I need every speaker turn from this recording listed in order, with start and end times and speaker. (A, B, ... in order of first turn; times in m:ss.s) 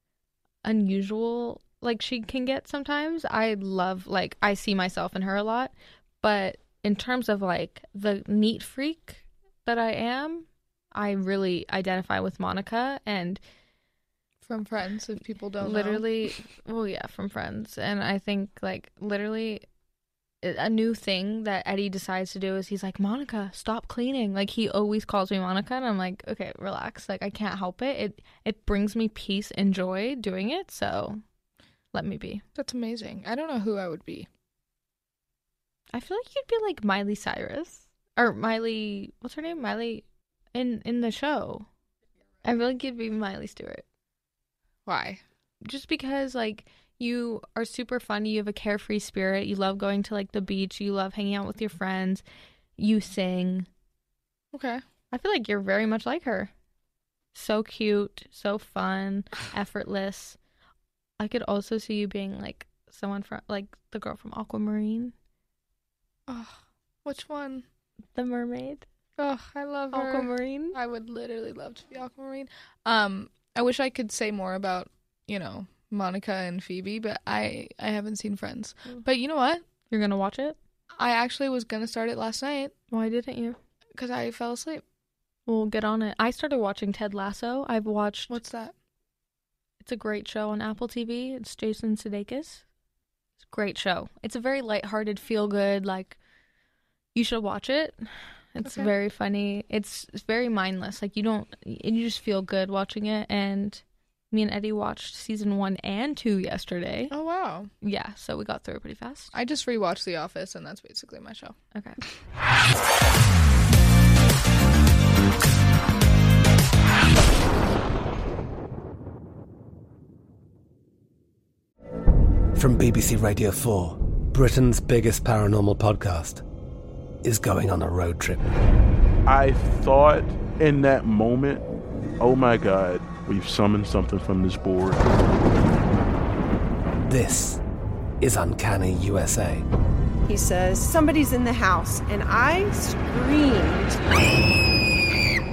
0:00.6-0:13.4 A
0:14.4-0:16.0 B
0:15.6-0:19.6 A
0:20.4-0:31.2 A
0:31.9-0:32.4 A
0:32.6-0:34.3 B
0:35.9-0:40.0 A
0:40.6-0:41.7 A
0:42.4-0:43.8 A
0:44.9-0:45.2 B
0:45.6-0:52.2 A
0:52.8-0:53.7 A
0:54.5-0:54.8 B
0:55.1-0:56.5 A
0:57.3-1:00.4 A
1:01.2-1:05.1 A
1:06.3-1:07.6 B
1:08.2-1:08.9 A
1:09.2-1:19.6 B
1:09.9-1:10.8 A
1:19.9-1:20.6 A
1:21.0-1:22.7 B
1:22.9-1:23.6 A
1:24.0-1:24.8 B
1:25.5-1:28.4 A
1:28.3-1:28.7 B
1:29.8-1:32.6 A
1:33.4-1:36.2 A
1:37.2-1:47.1 A
1:38.6-1:38.9 B
1:47.1-1:47.7 B
1:47.8-1:49.3 A
1:49.3-1:51.6 B
1:51.7-1:52.0 A
2:02.6-2:06.4 C
2:07.2-2:08.5 C
2:09.3-2:11.6 D
2:12.2-2:15.0 D
2:17.1-2:17.6 C
2:18.2-2:19.6 C
2:20.3-2:24.0 E